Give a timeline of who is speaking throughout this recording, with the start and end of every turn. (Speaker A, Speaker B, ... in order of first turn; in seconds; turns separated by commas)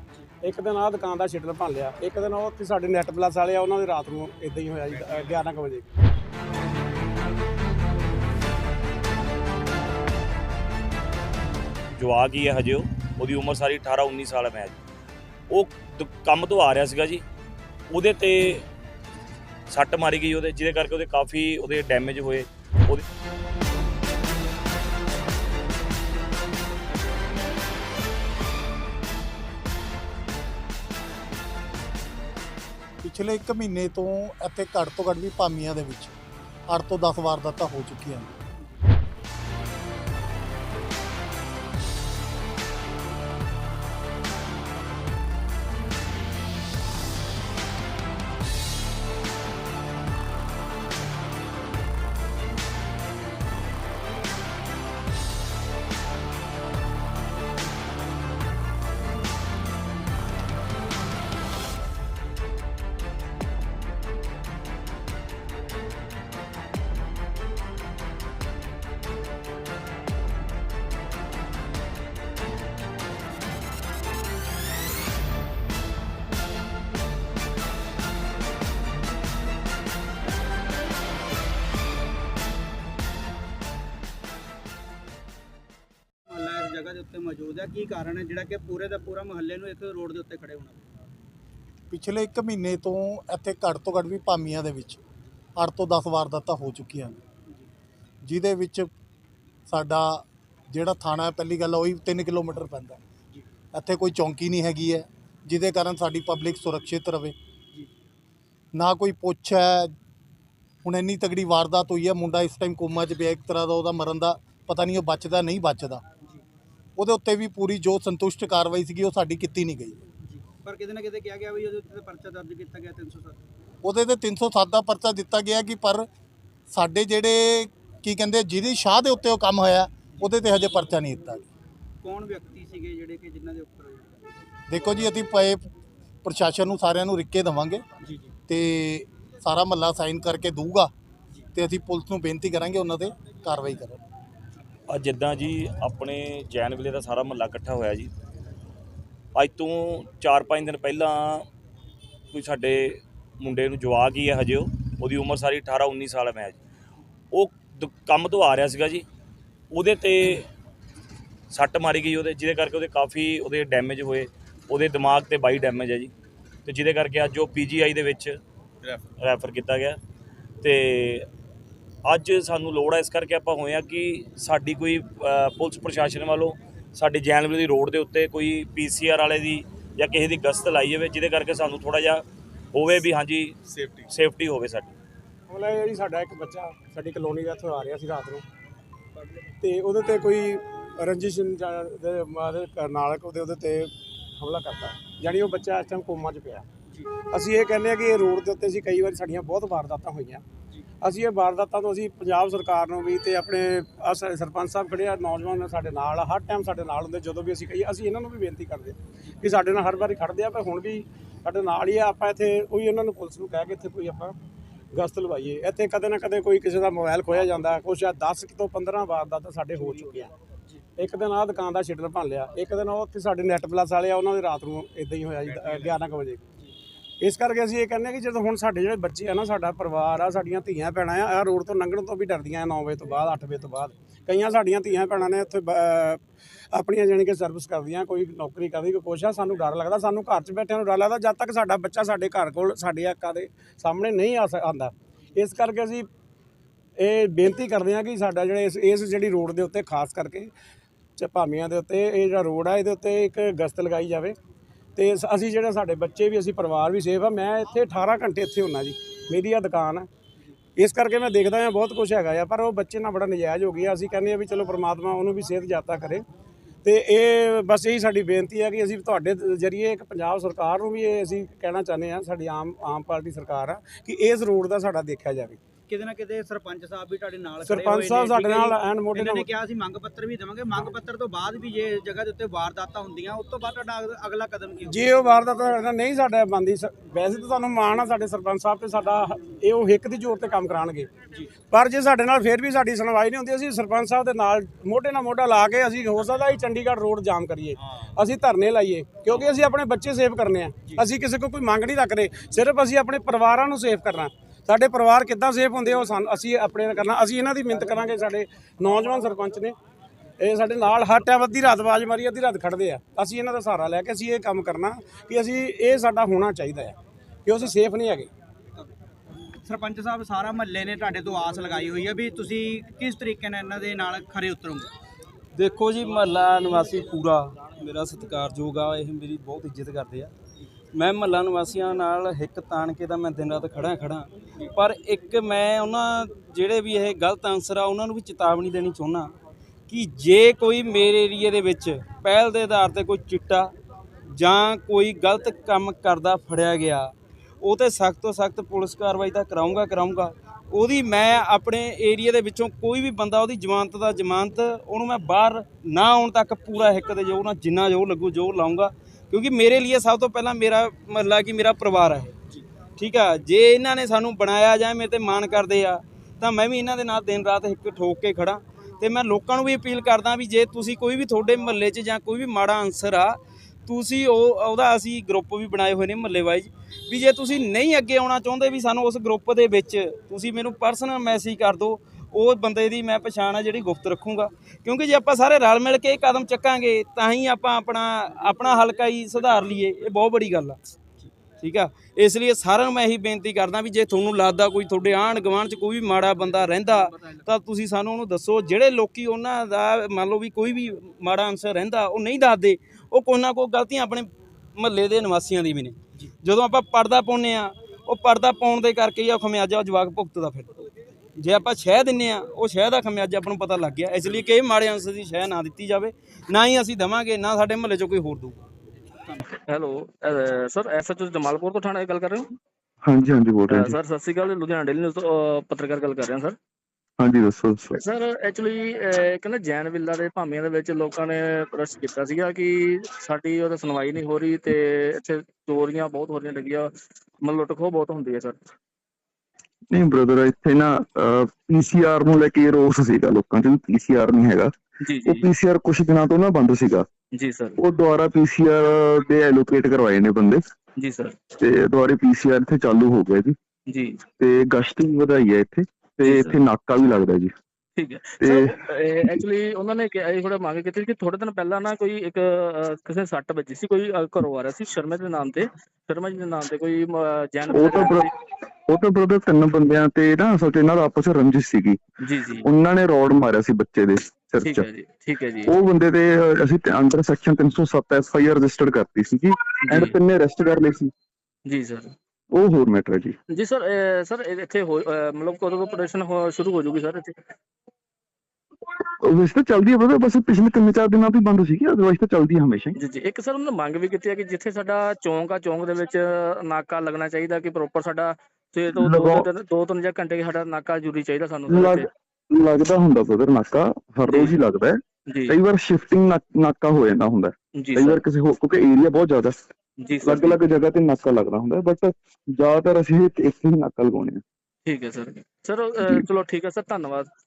Speaker A: 0.4-5.9, Speaker B: 11.9-14.8, Speaker B: 15.5-17.2, Speaker B: 17.9-18.6, Speaker B: 19.7-23.0, Speaker C: 33.0-36.1, Speaker C: 36.7-38.4, Speaker D: 86.2-90.8, Speaker C: 91.9-95.0, Speaker C: 95.6-97.2, Speaker C: 98.2-98.9, Speaker C: 99.7-103.0, Speaker C: 103.7-107.3, Speaker C: 108.7-109.9, Speaker C: 110.8-116.0, Speaker C: 117.0-120.0, Speaker D: 120.3-123.4, Speaker C: 123.8-126.0, Speaker C: 126.7-131.5, Speaker D: 132.0-134.3, Speaker C: 134.7-135.7, Speaker C: 136.2-137.8, Speaker C: 138.5-140.9, Speaker C: 141.5-144.0, Speaker B: 144.9-148.1, Speaker B: 149.3-151.4, Speaker B: 152.3-156.6, Speaker B: 157.3-159.0, Speaker B: 159.7-160.5, Speaker B: 161.5-166.1, Speaker B: 166.7-170.0, Speaker B: 170.6-171.3, Speaker B: 172.0-184.9, Speaker A: 185.5-188.4, Speaker A: 189.6-196.7, Speaker A: 197.3-200.4, Speaker A: 201.0-214.3, Speaker A: 214.9-220.3, Speaker A: 221.0-226.4, Speaker A: 227.2-236.2, Speaker A: 236.7-246.1, Speaker A: 247.0-250.5, Speaker A: 251.2-254.4, Speaker A: 254.9-260.1, Speaker A: 260.8-266.2, Speaker A: 266.8-275.6, Speaker D: 275.9-285.1, Speaker A: 277.6-279.5, Speaker A: 284.9-291.1, Speaker A: 291.7-309.8, Speaker A: 310.4-318.3, Speaker D: 319.6-324.9, Speaker E: 325.6-330.3, Speaker E: 330.9-339.3, Speaker E: 339.9-343.7, Speaker E: 344.3-362.4, Speaker E: 363.0-390.8, Speaker E: 391.6-418.6, Speaker F: 419.7-422.5, Speaker G: 423.0-423.9, Speaker F: 423.7-426.6, Speaker G: 427.2-428.0, Speaker F: 428.0-436.9, Speaker F: 437.4-438.6, Speaker G: 439.9-444.7, Speaker F: 445.0-445.5, Speaker G: 445.2-447.1, Speaker F: 447.3-447.8, Speaker G: 447.8-450.6, Speaker F: 451.0-451.4, Speaker G: 451.6-453.6, Speaker F: 453.9-454.2, Speaker G: 454.4-457.5, Speaker F: 456.2-456.6, Speaker F: 457.9-468.3, Speaker G: 458.4-458.7, Speaker G: 467.7-468.3, Speaker G: 468.9-472.0, Speaker F: 472.2-472.7, Speaker G: 472.6-474.9, Speaker F: 474.6-475.7, Speaker G: 475.6-481.1, Speaker F: 479.8-480.2, Speaker F: 481.7-482.1, Speaker G: 482.5-483.4, Speaker F: 483.5-487.4, Speaker G: 489.2-492.9, Speaker F: 493.0-502.1, Speaker G: 498.9-499.5, Speaker G: 501.7-509.6, Speaker F: 504.3-504.6, Speaker F: 505.3-505.6, Speaker F: 507.8-508.2, Speaker F: 510.0-510.6, Speaker G: 510.2-514.4, Speaker F: 514.9-517.3